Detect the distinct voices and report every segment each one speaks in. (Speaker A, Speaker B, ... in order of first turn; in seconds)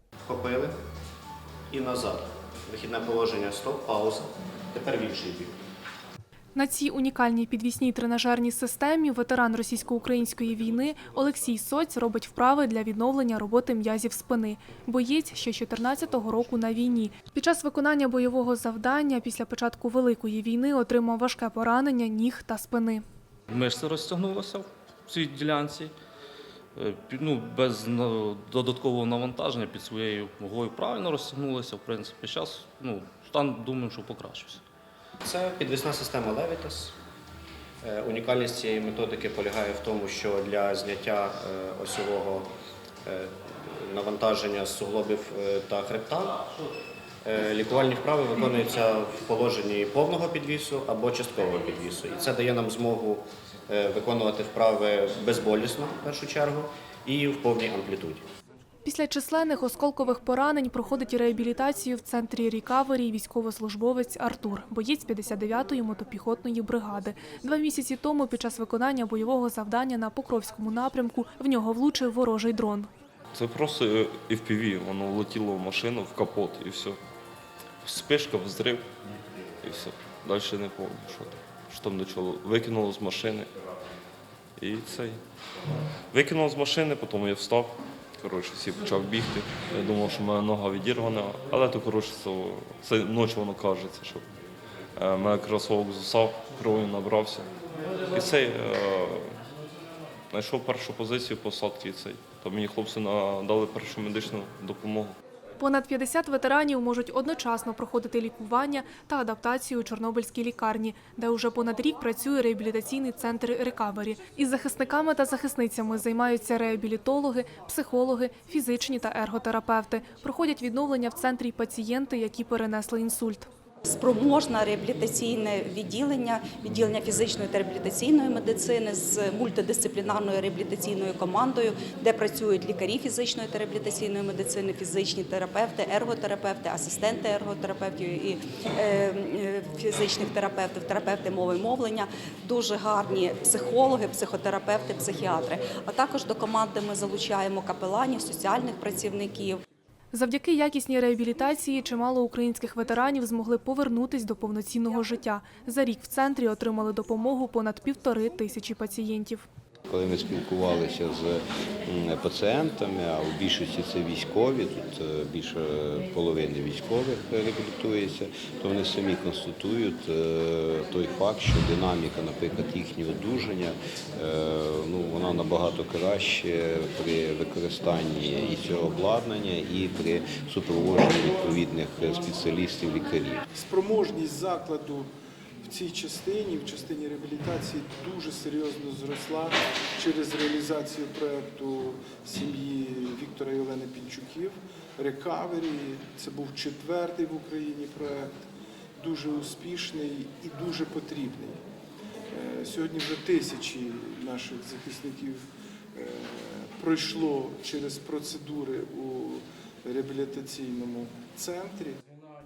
Speaker A: 0.2-0.7, 1.7-5.5, 35.2-36.9, 37.8-42.5, 43.0-46.3, 47.2-58.2
Speaker B: 6.5-23.0, 58.8-72.9, 105.6-123.5, 150.1-159.4
Speaker C: 23.5-25.9, 26.8-34.6
Speaker D: 73.3-77.0, 77.8-78.8, 79.6-83.5, 84.6-85.2, 86.1-94.2, 95.0-97.5, 98.1-99.4, 100.3-105.1
Speaker E: 123.8-149.6
Speaker F: 159.9-183.4
Speaker G: 183.6-185.1, 185.7-198.3, 199.0-201.6, 202.3-205.4, 205.9-211.9